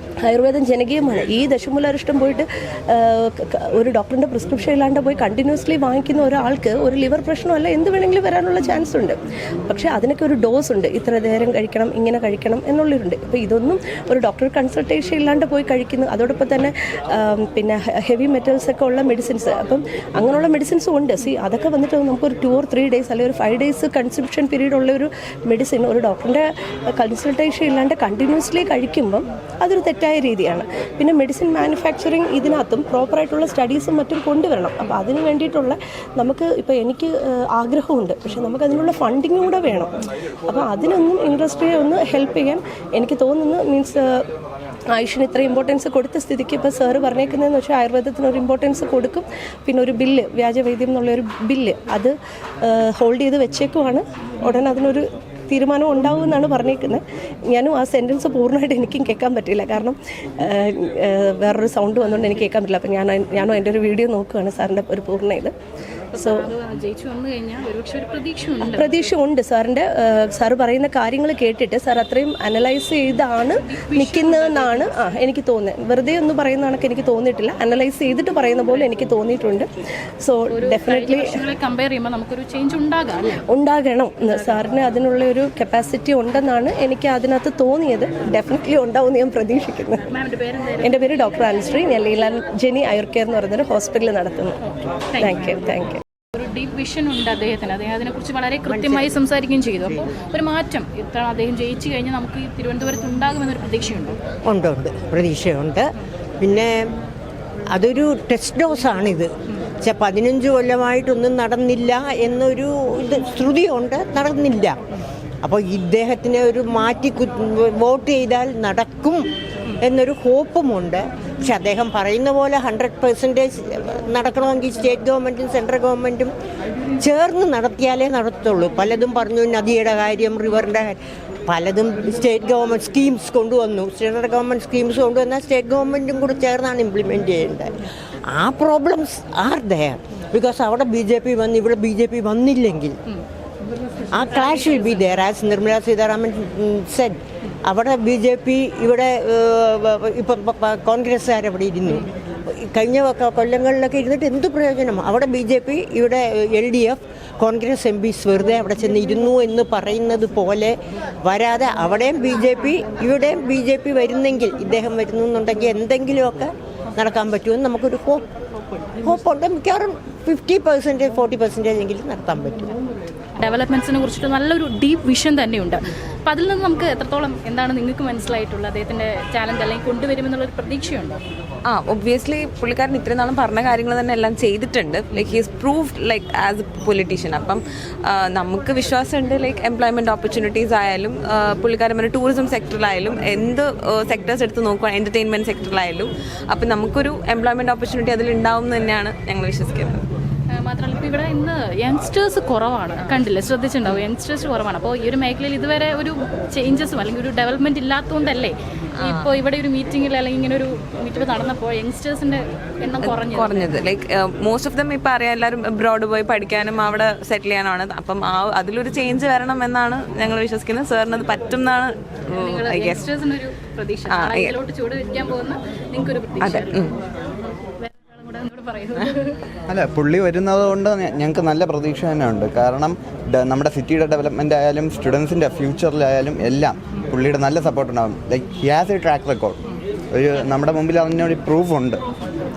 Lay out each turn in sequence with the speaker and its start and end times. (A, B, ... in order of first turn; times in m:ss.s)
0:00.2-0:39.9 A
0:40.5-0:44.2 A
0:44.9-1:05.5 A
1:06.1-1:09.1 B
1:06.1-1:06.5 A
1:08.6-1:19.7 A
1:13.6-1:15.2 B
1:20.2-1:21.4 A
1:20.5-1:23.4 B
1:23.5-1:30.1 A
1:30.1-1:31.3 B
1:30.8-1:34.6 A
1:35.1-1:35.5 B
1:35.2-1:36.0 A
1:36.4-1:44.2 B
1:38.7-1:39.1 C
1:44.5-1:46.9 C
1:47.7-1:49.3 C
1:49.8-1:54.8 C
1:55.4-1:59.2 C
1:59.8-2:06.3 C
2:07.0-2:17.7 C
2:18.3-2:23.0 C
2:24.1-2:48.2 C
2:49.0-2:52.7 C
2:53.4-3:01.2 B
3:01.7-3:20.0 D
3:20.5-3:33.7 B
3:29.0-3:29.3 D
3:33.0-3:43.1 D
3:42.3-3:47.0 B
3:44.1-3:44.6 D
3:46.4-3:47.0 D
3:47.8-3:49.4 B
3:49.7-3:59.6 E
4:00.1-4:02.0 E